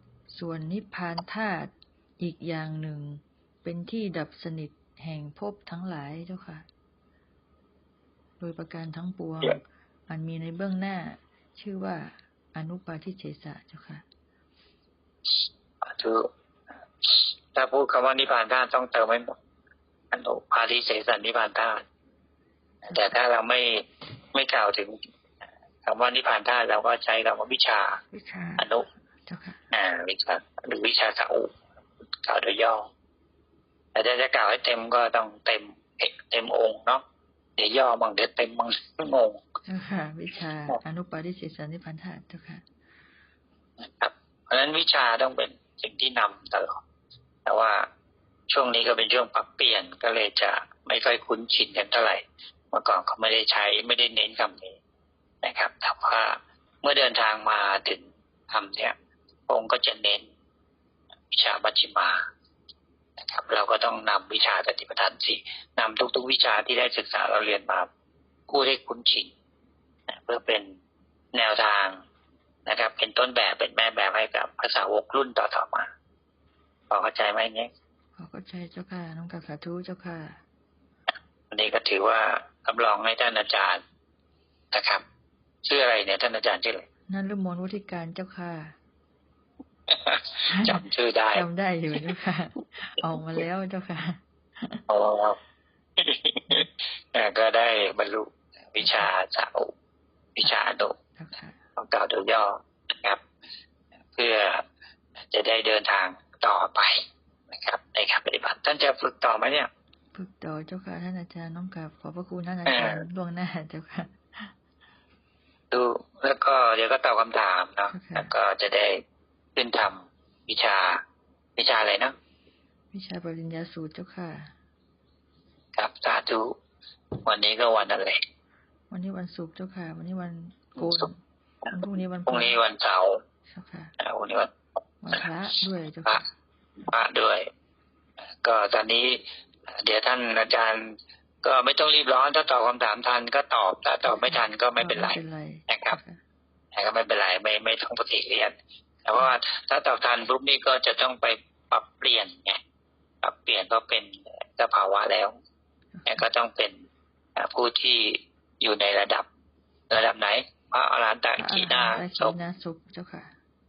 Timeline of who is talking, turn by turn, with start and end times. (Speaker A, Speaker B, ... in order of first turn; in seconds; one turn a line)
Speaker A: 0.3-6.7
Speaker A: 8.4-14.1
Speaker B: 15.8-16.3
Speaker B: 17.0-19.4
Speaker B: 20.1-21.8
Speaker B: 22.9-25.0
Speaker B: 25.9-28.0
Speaker A: 28.1-28.7
Speaker B: 28.6-28.9
Speaker A: 29.3-29.6
Speaker B: 29.7-31.6
Speaker B: 32.2-32.9
Speaker B: 34.0-37.0
Speaker B: 37.6-39.4
Speaker A: 39.7-42.6
Speaker B: 43.8-46.8
Speaker B: 47.5-47.9
Speaker B: 48.5-54.8
Speaker B: 55.4-59.0
Speaker B: 59.5-60.3
Speaker B: 61.3-62.2
Speaker B: 63.2-67.9
Speaker B: 68.5-69.3
Speaker B: 70.1-70.8
Speaker B: 71.3-72.0
Speaker B: 72.7-75.9
Speaker B: 76.9-77.7
Speaker A: 78.2-80.4
Speaker B: 81.5-83.8
Speaker B: 84.7-85.0
Speaker B: 85.7-86.9
Speaker A: 87.1-88.8
Speaker B: 89.9-91.5
Speaker A: 90.5-94.8
Speaker B: 94.9-95.4
Speaker B: 96.0-99.7
Speaker B: 100.4-101.0
Speaker A: 101.2-101.6
Speaker B: 101.8-103.2
Speaker B: 104.2-104.7
Speaker B: 105.3-109.7
Speaker A: 110.1-114.5
Speaker B: 112.7-113.0
Speaker B: 115.7-119.0
Speaker A: 117.9-118.3
Speaker B: 119.5-121.0
Speaker B: 121.6-122.2
Speaker A: 122.9-124.5
Speaker B: 125.8-126.6
Speaker B: 127.2-128.2
Speaker A: 128.9-131.2
Speaker B: 130.8-131.1
Speaker A: 131.7-132.6
Speaker B: 132.3-133.2
Speaker A: 133.5-133.9
Speaker B: 134.0-134.5
Speaker A: 135.0-136.3
Speaker B: 136.8-137.5
Speaker B: 138.4-145.2
Speaker A: 144.1-146.2
Speaker B: 145.7-146.0
Speaker B: 146.7-148.5
Speaker B: 149.1-152.6
Speaker B: 153.2-155.3
Speaker A: 156.0-156.2
Speaker B: 156.1-156.8
Speaker B: 157.4-159.3
Speaker B: 159.9-162.4
Speaker A: 161.4-163.4